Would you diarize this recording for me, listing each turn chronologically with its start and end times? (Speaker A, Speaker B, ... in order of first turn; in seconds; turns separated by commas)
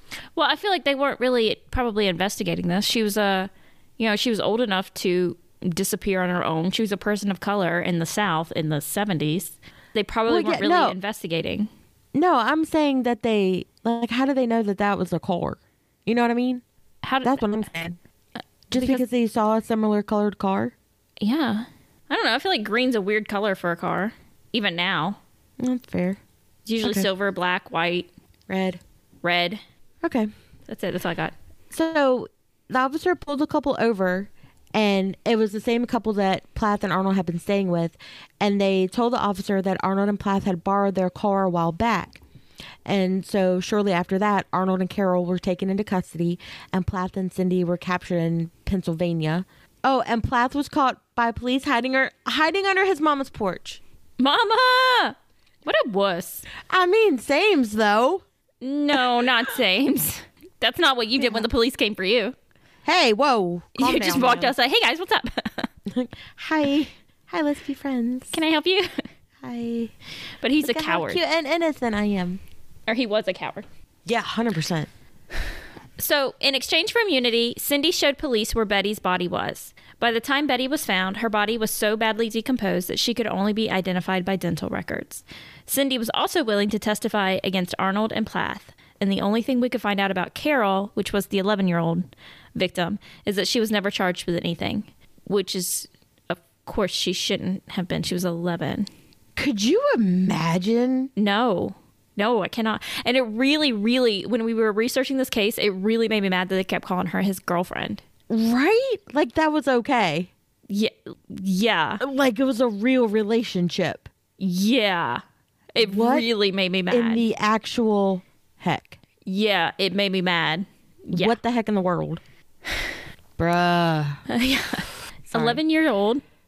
Speaker A: 0.3-11.7, Speaker B: 10.3-11.0, Speaker B: 12.1-16.6, Speaker A: 17.0-17.6, Speaker B: 17.2-18.0, Speaker B: 18.7-20.8, Speaker A: 18.7-19.0, Speaker A: 21.2-25.2, Speaker B: 25.6-26.2, Speaker A: 26.7-28.1, Speaker B: 26.8-27.1, Speaker B: 28.5-28.8, Speaker A: 29.2-29.6, Speaker B: 30.0-30.3, Speaker A: 30.7-31.4, Speaker B: 31.7-42.2, Speaker B: 42.9-53.8, Speaker A: 54.2-56.5, Speaker B: 56.6-58.2, Speaker A: 58.6-62.4, Speaker B: 61.2-61.4, Speaker B: 62.9-64.5, Speaker A: 63.8-65.7, Speaker B: 65.9-68.4, Speaker A: 68.3-69.0, Speaker B: 69.4-69.9, Speaker A: 70.4-71.2, Speaker B: 70.6-72.4, Speaker A: 72.9-73.7, Speaker B: 74.1-74.9, Speaker A: 76.0-98.9, Speaker B: 99.4-101.1, Speaker A: 101.2-108.0, Speaker B: 108.3-110.3, Speaker A: 110.7-112.0, Speaker B: 112.0-114.1, Speaker A: 114.4-115.2, Speaker A: 115.7-117.2, Speaker B: 115.8-116.3, Speaker B: 116.9-119.0, Speaker A: 119.2-121.4, Speaker B: 121.1-122.2, Speaker B: 123.4-124.2, Speaker A: 124.3-126.2, Speaker B: 125.3-125.6